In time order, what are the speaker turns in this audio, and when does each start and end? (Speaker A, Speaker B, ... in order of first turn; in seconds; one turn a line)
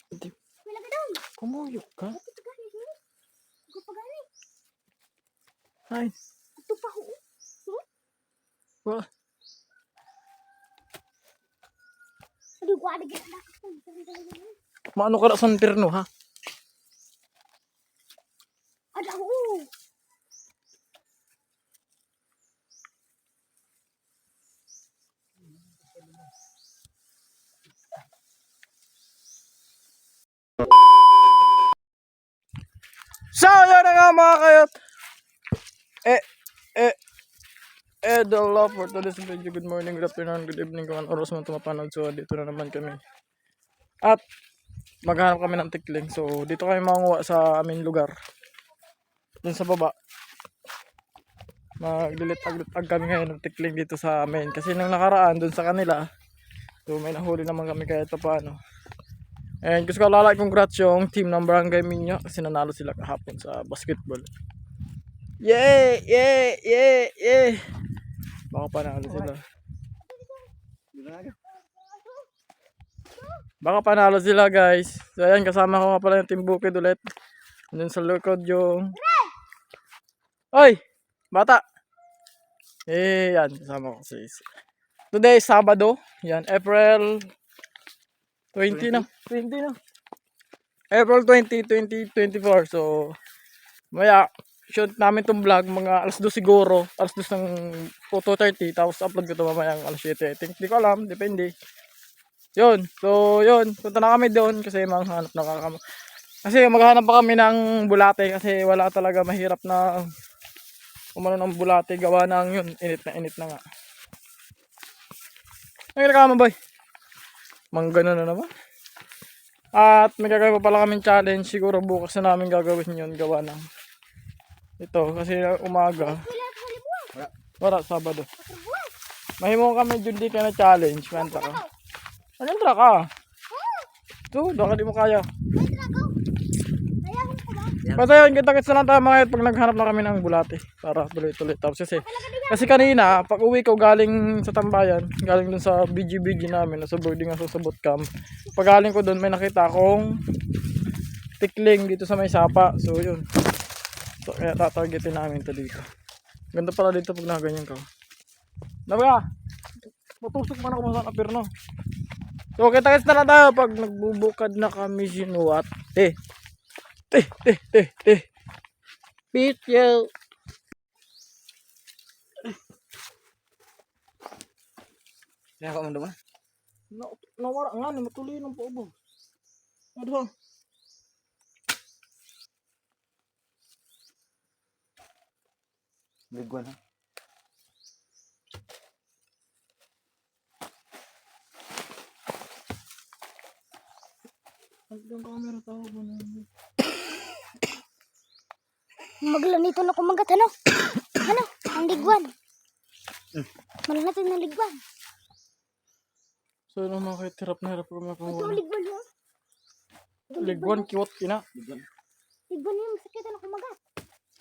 Speaker A: 0.6-1.2
Speaker B: 1.4-2.2
Speaker A: 2.1-3.0
Speaker A: 3.7-4.3
Speaker A: 6.6-7.8
Speaker A: 12.6-14.6
Speaker B: 14.9-16.1
Speaker A: 18.9-19.7
Speaker B: 33.3-34.7
Speaker B: 38.0-43.0
Speaker B: 45.0-48.1
Speaker B: 49.4-49.9
Speaker B: 51.8-56.0
Speaker B: 56.9-58.6
Speaker B: 59.6-64.3
Speaker B: 65.4-67.6
Speaker B: 68.5-69.4
Speaker C: 69.0-69.3
Speaker A: 70.0-70.5
Speaker C: 70.9-71.3
Speaker A: 71.5-72.2
Speaker B: 73.6-77.1
Speaker B: 77.7-78.9
Speaker A: 79.0-79.3
Speaker B: 80.5-80.8
Speaker B: 81.3-81.6
Speaker B: 82.9-84.4
Speaker B: 85.1-87.3
Speaker B: 88.5-89.8
Speaker C: 88.7-89.0
Speaker B: 90.9-93.1
Speaker B: 93.9-101.5
Speaker B: 102.5-105.8
Speaker B: 106.4-110.1
Speaker B: 111.2-113.6
Speaker B: 116.0-116.5
Speaker B: 117.7-118.5
Speaker B: 119.8-123.6
Speaker B: 124.8-126.2
Speaker A: 126.0-127.1
Speaker B: 127.6-128.3
Speaker A: 128.4-128.9
Speaker B: 129.4-131.6
Speaker A: 131.1-131.7
Speaker B: 132.4-133.1
Speaker A: 133.5-133.9
Speaker B: 134.3-135.3
Speaker A: 135.5-136.2
Speaker A: 137.0-137.9
Speaker B: 137.9-150.2
Speaker A: 141.9-143.2
Speaker B: 151.4-153.2
Speaker B: 154.2-155.8
Speaker B: 156.5-157.8
Speaker B: 158.9-159.2
Speaker B: 160.2-161.5
Speaker B: 162.6-166.1
Speaker B: 167.1-168.2
Speaker B: 169.3-170.1
Speaker C: 175.6-176.1
Speaker B: 176.9-178.9
Speaker B: 179.9-180.3
Speaker C: 186.3-186.8
Speaker B: 194.9-196.5
Speaker A: 199.2-202.3
Speaker A: 203.8-204.8
Speaker B: 206.7-208.6
Speaker A: 208.3-209.0
Speaker A: 210.3-210.9
Speaker B: 210.4-211.4
Speaker C: 211.5-211.8
Speaker A: 212.5-213.8